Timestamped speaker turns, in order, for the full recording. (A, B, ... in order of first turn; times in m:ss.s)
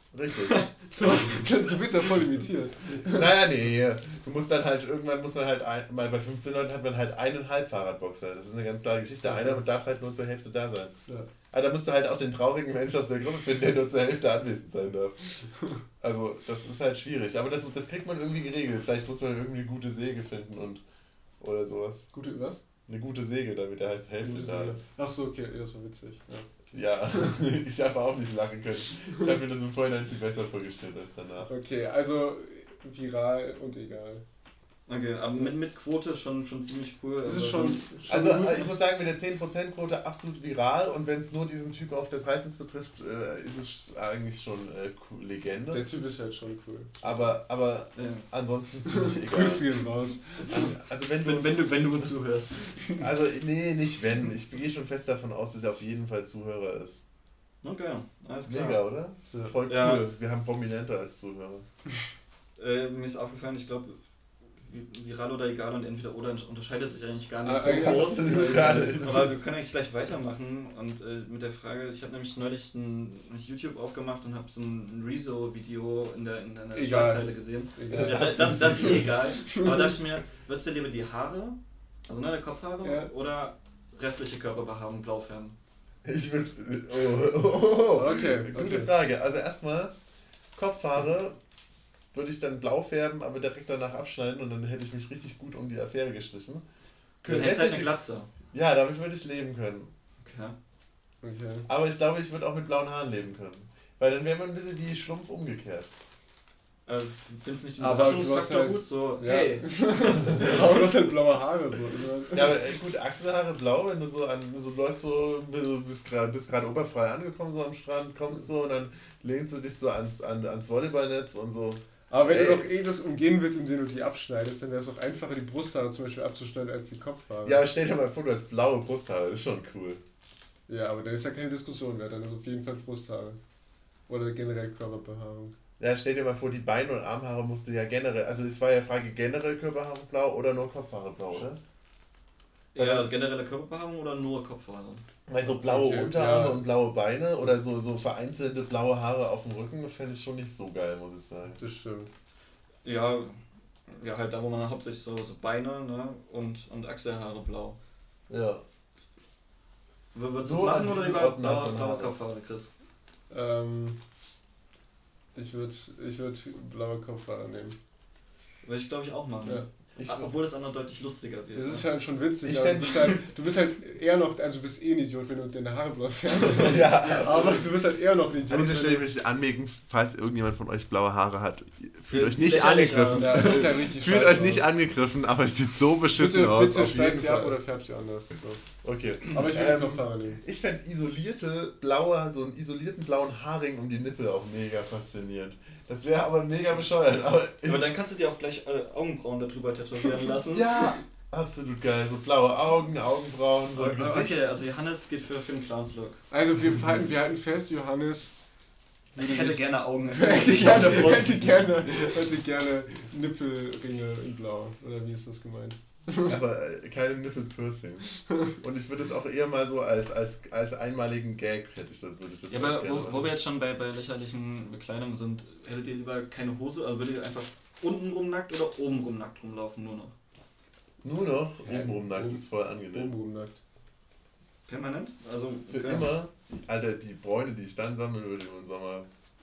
0:00.1-0:00.6 A
0:00.5-0:01.2 B
0:00.9-0:03.5 C
0:03.0-0:11.0 A
0:09.3-0:09.6 C
0:11.5-0:15.4 A
0:16.0-0:20.8 A
0:21.4-0:22.1 A
0:22.1-0:22.6 C
0:22.9-0:24.8 A
0:24.2-0:26.5 C
0:26.7-0:31.5 A
0:31.5-0:34.2 C
0:34.9-0:38.0 B
0:37.3-0:38.7 C
0:38.1-0:45.8 A
0:45.7-0:47.2 C
0:47.0-0:49.7 A
0:48.0-0:48.3 B
0:48.9-0:50.6 C
0:50.5-0:51.8 A
0:51.2-0:53.0 B
0:53.0-0:57.0 A
0:57.6-0:58.8 B
0:58.5-1:01.6 A
0:59.3-0:59.6 C
0:59.7-1:00.0 B
1:02.6-1:04.0 B
1:04.6-1:25.6 B
1:07.4-1:09.1 C
1:07.6-1:09.3 A
1:16.7-1:18.8 C
1:17.9-1:19.1 A
1:19.5-1:20.0 C
1:22.8-1:23.1 C
1:26.0-1:29.9 A
1:27.9-1:28.9 C
1:30.6-1:31.4 A
1:32.1-1:36.6 A
1:37.2-1:37.9 A
1:37.2-1:38.3 B
1:38.5-1:39.9 A
1:40.2-1:40.6 B
1:41.2-1:41.7 C
1:41.7-1:45.9 A
1:46.9-1:50.9 B
1:47.8-1:52.6 C
1:52.3-2:02.7 A
2:02.1-2:07.6 C
2:07.4-2:10.0 A
2:10.7-2:13.4 C
2:14.1-2:15.6 C
2:15.8-2:21.6 A
2:22.7-2:25.0 B
2:22.8-2:23.1 C
2:25.3-2:31.6 A
2:25.6-2:26.7 C
2:31.6-2:32.1 C
2:32.8-2:37.8 B
2:38.3-2:38.6 A
2:40.1-2:42.7 B
2:40.4-2:42.2 A
2:43.3-2:44.0 C
2:45.4-2:47.8 C
2:48.6-2:51.9 B
2:50.0-2:50.3 A
2:51.6-2:59.0 C
2:52.4-2:53.3 A
2:56.4-2:57.7 A
2:58.5-3:07.6 A
3:02.1-3:03.8 B
3:02.9-3:04.7 C
3:06.2-3:08.6 C
3:08.8-3:17.9 A
3:09.3-3:10.4 C
3:17.6-3:21.0 B
3:20.5-3:24.5 A
3:23.7-3:26.2 B
3:26.3-3:28.3 C
3:29.2-3:31.7 B
3:29.2-3:36.4 C
3:36.3-3:43.3 A
3:42.5-3:50.1 B
3:51.0-3:53.1 A
3:51.6-3:53.6 C
3:54.7-3:56.1 B
3:55.7-3:59.1 A